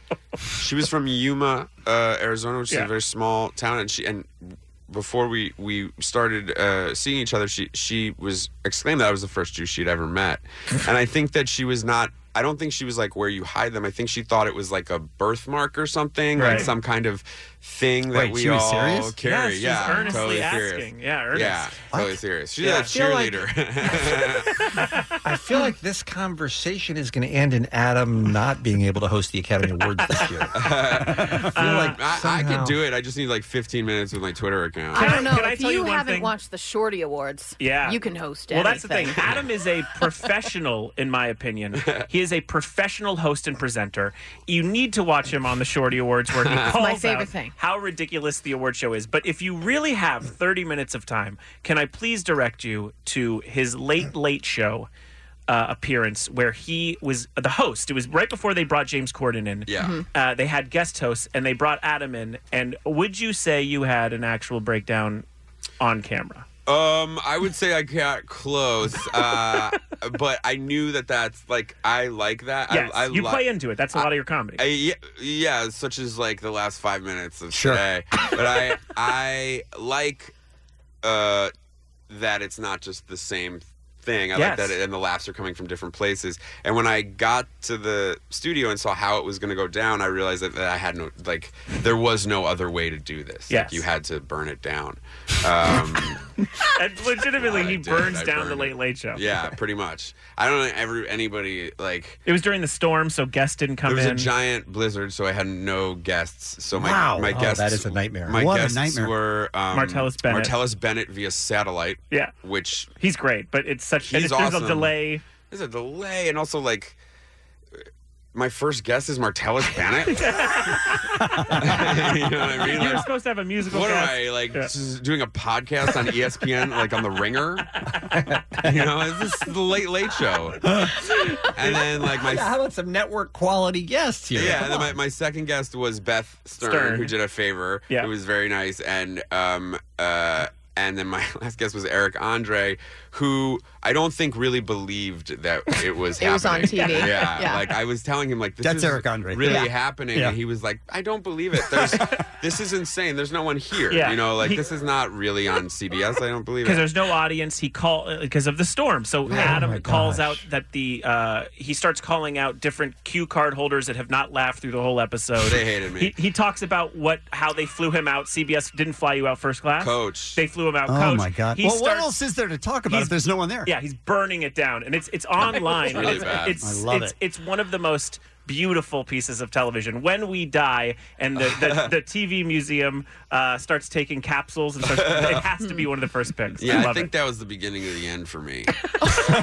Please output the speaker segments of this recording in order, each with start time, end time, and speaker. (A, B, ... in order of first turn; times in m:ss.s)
0:00.6-0:24.5 A
0:16.4-0:16.7 B
0:18.1-0:19.2 C
0:19.2-0:21.9 B
0:21.9-0:22.2 C
0:22.6-0:23.4 B
0:22.9-0:23.4 D
0:24.6-0:24.9 B
0:25.2-0:32.8 D
0:30.6-0:35.1 A
0:31.1-0:31.5 C
0:31.5-0:32.0 B
0:34.9-0:36.3 B
0:34.9-0:39.2 E
0:37.6-0:54.9 B
0:41.8-0:42.1 A
0:46.4-0:46.7 A
0:46.7-0:47.5 E
0:55.5-1:05.2 B
0:59.7-1:00.0 A
1:05.8-1:06.4 B
1:06.7-1:13.4 A
1:12.7-1:14.6 B
1:14.6-1:20.3 A
1:17.5-1:17.8 C
1:21.0-1:21.5 A
1:22.1-1:36.2 A
1:24.3-1:24.8 B
1:33.5-1:33.9 B
1:36.6-1:39.3 B
1:37.3-1:42.2 A
1:42.3-1:44.3 B
1:43.9-1:52.9 A
1:46.7-1:47.4 C
1:47.3-1:48.5 D
1:48.3-1:49.1 C
1:49.7-1:50.6 B
1:53.0-1:55.2 B
1:54.0-1:54.9 A
1:55.5-1:57.0 A
1:58.3-2:00.3 A
2:00.2-2:01.9 B
2:01.6-2:03.1 A
2:02.5-2:04.7 B
2:03.7-2:07.7 A
2:08.1-2:08.7 D
2:08.6-2:10.6 A
2:11.5-2:15.0 D
2:11.5-2:12.5 A
2:14.3-2:36.9 A
2:16.6-2:17.2 B
2:26.2-2:27.7 E
2:26.8-2:27.4 B
2:28.6-2:30.4 C
2:33.9-2:34.6 B
2:36.6-2:52.1 B
2:39.3-2:40.4 C
2:45.4-2:46.1 A
2:49.8-2:50.4 A
2:50.9-2:53.7 C
2:52.9-3:07.1 B
2:55.4-2:56.6 A
2:56.6-2:57.2 C
3:01.4-3:01.9 A
3:04.8-3:05.5 A
3:06.6-3:08.7 A